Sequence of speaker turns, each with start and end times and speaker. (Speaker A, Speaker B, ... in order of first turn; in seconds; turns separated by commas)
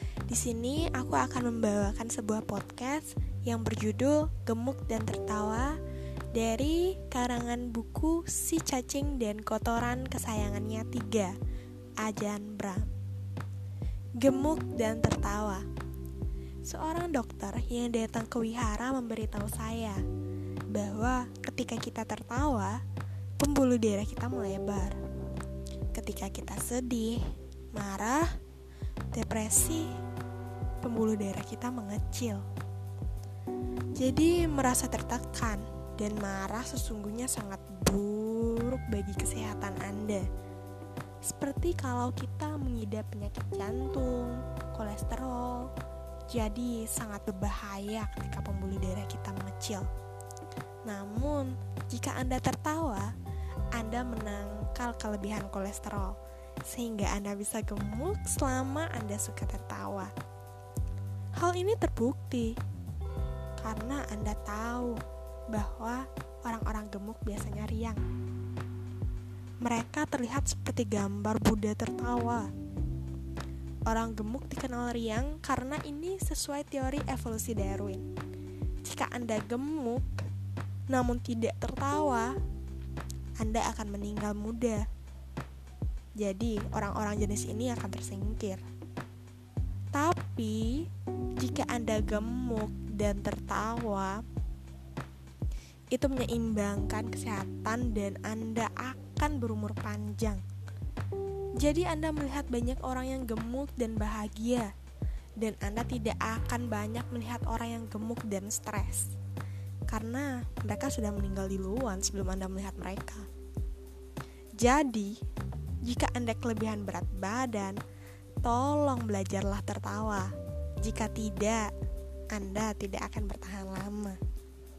Speaker A: 0.3-5.8, Speaker A: 6.3-11.3, Speaker A: 12.0-12.9, Speaker A: 14.2-15.6, Speaker A: 16.6-20.0, Speaker A: 20.7-22.8, Speaker A: 23.4-25.0, Speaker A: 25.9-28.4, Speaker A: 29.1-30.0, Speaker A: 30.8-32.5, Speaker A: 34.0-40.3, Speaker A: 41.2-45.7, Speaker A: 46.3-49.9, Speaker A: 50.8-53.1, Speaker A: 53.7-56.2, Speaker A: 56.7-60.1, Speaker A: 61.4-62.6, Speaker A: 63.6-65.0, Speaker A: 65.5-68.0, Speaker A: 69.6-72.5, Speaker A: 73.9-78.0, Speaker A: 78.8-80.2, Speaker A: 80.9-82.3, Speaker A: 83.4-84.9, Speaker A: 86.2-88.6, Speaker A: 89.9-94.2, Speaker A: 95.9-100.4, Speaker A: 101.6-104.7, Speaker A: 105.4-109.1, Speaker A: 109.9-113.2, Speaker A: 114.6-115.2, Speaker A: 115.8-117.8, Speaker A: 118.4-120.3, Speaker A: 120.8-121.7, Speaker A: 122.3-124.2